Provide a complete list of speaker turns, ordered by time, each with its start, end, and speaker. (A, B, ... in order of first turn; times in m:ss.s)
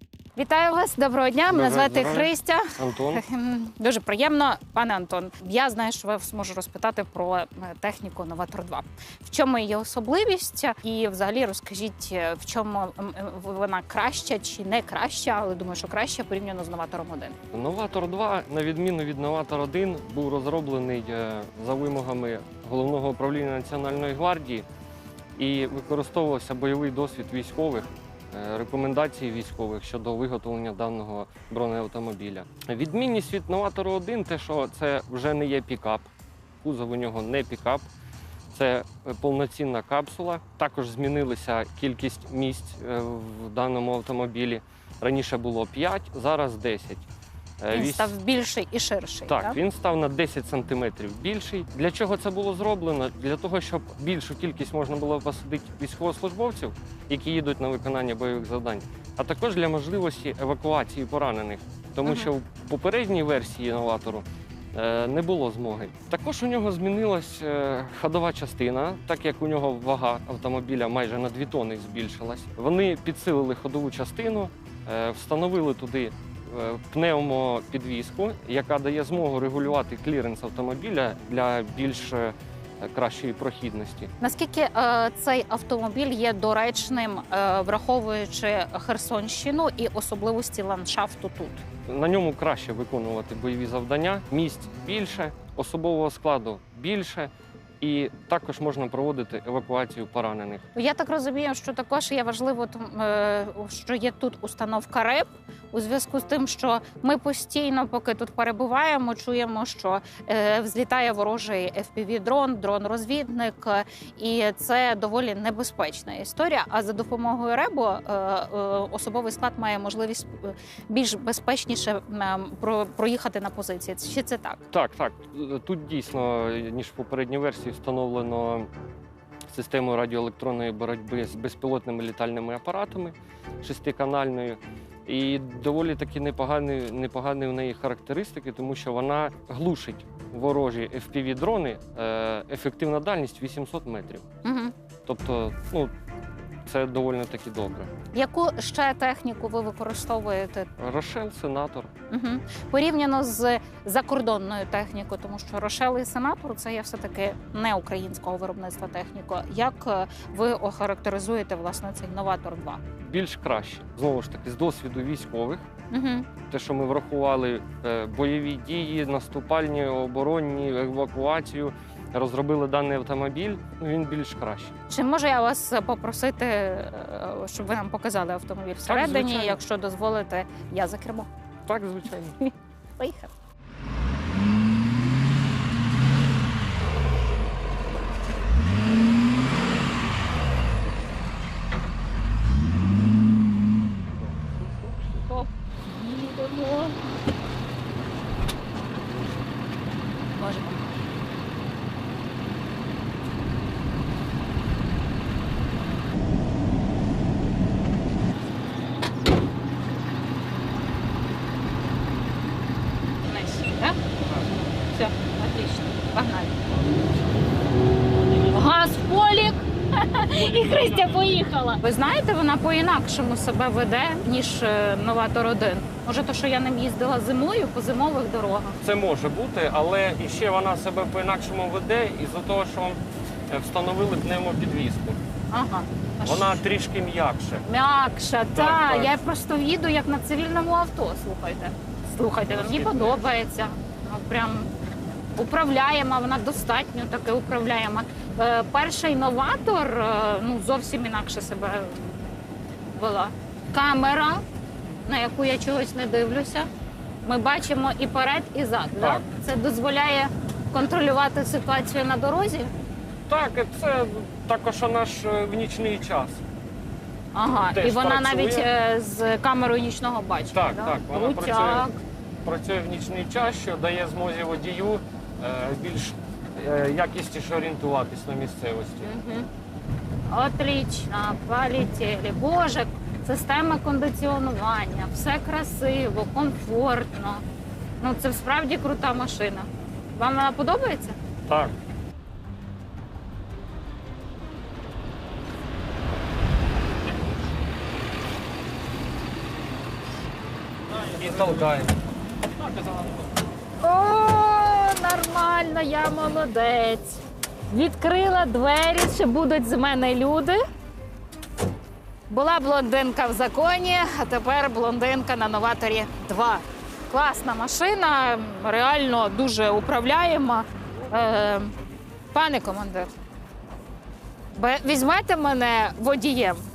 0:00.4-0:17.4 A
0:01.5-0:03.2 B
0:17.5-0:24.6 B
0:25.4-0:36.1 B
0:36.6-0:37.8 B
0:38.5-0:47.1 B
0:47.6-0:48.1 B
0:47.7-0:49.6 A
0:49.3-1:24.1 B
1:02.0-1:02.3 A
1:24.2-1:31.6 A
1:31.9-1:40.6 B
1:40.7-2:04.6 A
2:04.7-2:08.7 B
2:09.5-2:24.2 B
2:24.4-2:24.7 A
2:25.0-2:25.9 B
2:26.6-2:27.9 B
2:28.1-2:30.7 A
2:30.8-2:31.9 B
2:32.1-2:42.8 A
2:43.0-2:45.7 B
2:45.9-2:46.3 A
2:46.5-2:54.7 B
2:54.9-3:01.3 A
2:58.8-2:59.6 B
3:01.7-3:02.4 B
3:02.4-3:03.3 A
3:15.2-3:17.0 A
3:20.4-3:20.9 A
3:33.3-3:36.6 A
3:38.3-3:48.8 A
3:40.4-3:41.2 B
3:48.8-3:55.2 B
3:55.5-3:56.6 A
3:56.2-3:57.6 B
3:57.6-4:04.7 A
3:58.5-3:59.1 B
4:02.5-4:03.2 B
4:05.4-4:12.2 A
4:12.9-4:14.4 A
4:15.0-4:16.7 A
4:17.2-4:22.7 A
4:19.0-4:19.2 B
4:23.3-4:26.4 B
4:27.3-4:32.0 A
4:27.5-4:28.7 B
4:30.5-4:31.9 B
4:32.4-4:39.1 B
4:39.0-4:39.5 A
4:40.3-4:47.4 A
4:48.0-4:51.2 A
4:51.5-4:51.7 B
5:01.1-5:01.9 B
5:03.8-5:10.6 A
5:12.3-5:21.7 A
5:22.3-5:23.1 A
5:24.5-5:26.6 A